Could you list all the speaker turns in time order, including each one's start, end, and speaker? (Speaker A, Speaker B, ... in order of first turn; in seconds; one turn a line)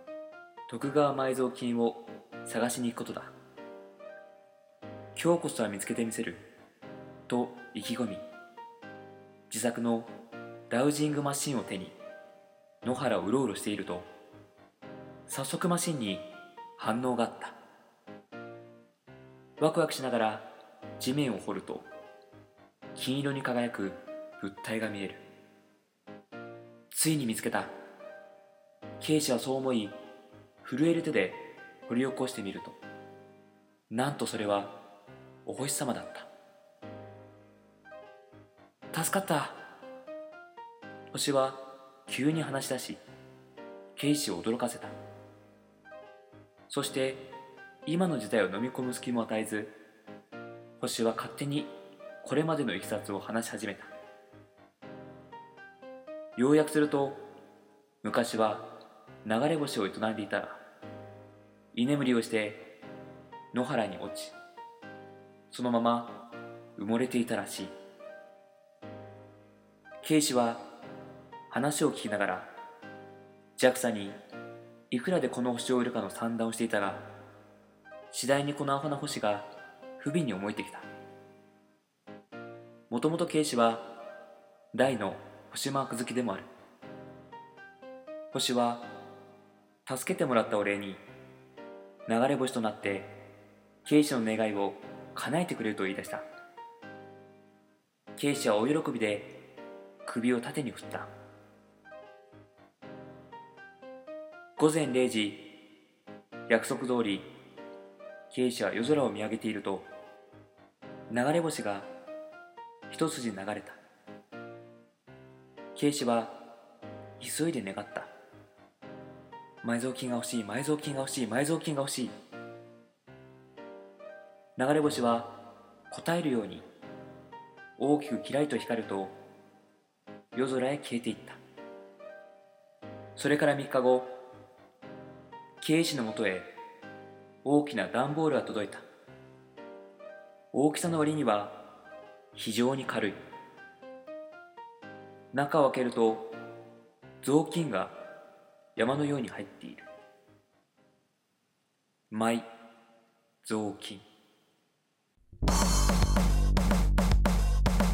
Speaker A: 0.7-3.3
Speaker A: 5.1-6.5
Speaker A: 7.3-8.2
Speaker A: 9.5-10.1
Speaker A: 10.7-11.9
Speaker A: 12.8-14.1
Speaker A: 15.3-17.6
Speaker A: 19.6-21.9
Speaker A: 22.9-25.3
Speaker A: 26.9-27.7
Speaker A: 29.0-30.0
Speaker A: 30.6-32.8
Speaker A: 33.9-34.8
Speaker A: 35.4-36.3
Speaker A: 38.9-39.6
Speaker A: 41.1-43.0
Speaker A: 44.0-44.9
Speaker A: 46.7-47.3
Speaker A: 47.9-49.8
Speaker A: 50.8-53.9
Speaker A: 56.4-57.3
Speaker A: 58.0-60.6
Speaker A: 61.7-62.7
Speaker A: 63.5-64.3
Speaker A: 65.5-67.7
Speaker A: 70.0-70.7
Speaker A: 71.5-72.5
Speaker A: 73.6-74.2
Speaker A: 74.9-77.1
Speaker A: 78.1-80.9
Speaker A: 82.9-84.0
Speaker A: 84.7-86.5
Speaker A: 88.3-88.9
Speaker A: 89.8-91.0
Speaker A: 92.1-93.2
Speaker A: 93.8-96.2
Speaker A: 98.2-99.5
Speaker A: 100.0-101.1
Speaker A: 104.6-105.7
Speaker A: 106.5-107.3
Speaker A: 108.3-109.9
Speaker A: 111.1-111.9
Speaker A: 112.9-113.8
Speaker A: 115.7-116.5
Speaker A: 117.2-118.1
Speaker A: 119.6-122.2
Speaker A: 124.6-126.7
Speaker A: 127.8-129.2
Speaker A: 130.3-131.4
Speaker A: 133.2-134.2
Speaker A: 135.6-136.6
Speaker A: 137.4-138.8
Speaker A: 140.5-141.7
Speaker A: 142.3-143.2
Speaker A: 145.3-146.4
Speaker A: 147.2-148.0
Speaker A: 148.8-149.8
Speaker A: 152.1-152.5
Speaker A: 153.4-154.0